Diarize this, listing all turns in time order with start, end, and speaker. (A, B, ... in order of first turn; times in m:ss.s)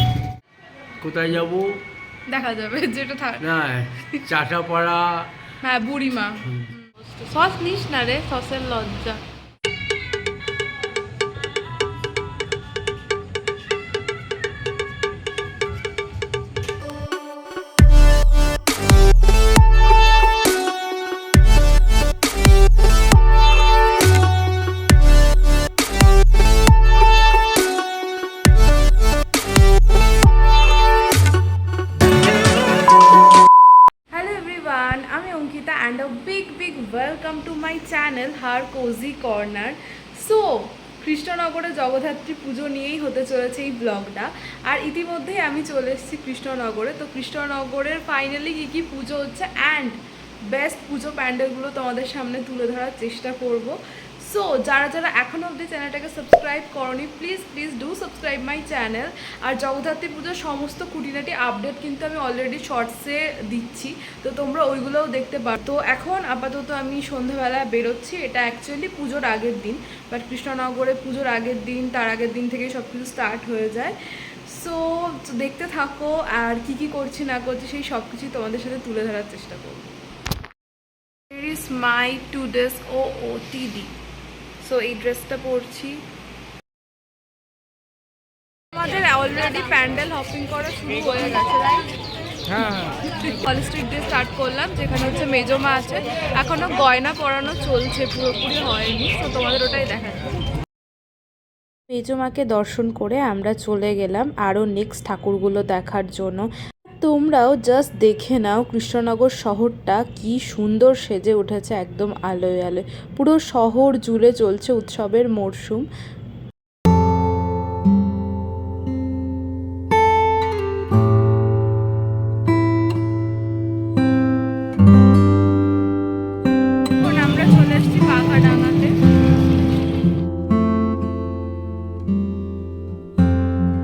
0:01.0-0:01.6 A
0:02.3-0:03.4 B
0:03.4-0:05.3 A
0:05.6-0:09.2 B
0:34.1-0:50.0 B
0:50.5-1:13.9 B
1:14.5-1:20.0 B
1:21.3-1:23.9 B
1:24.6-1:26.0 B
1:28.7-1:31.9 B
1:32.6-1:40.3 B
1:41.9-1:46.4 C
1:47.0-1:55.8 C
2:07.0-2:08.9 B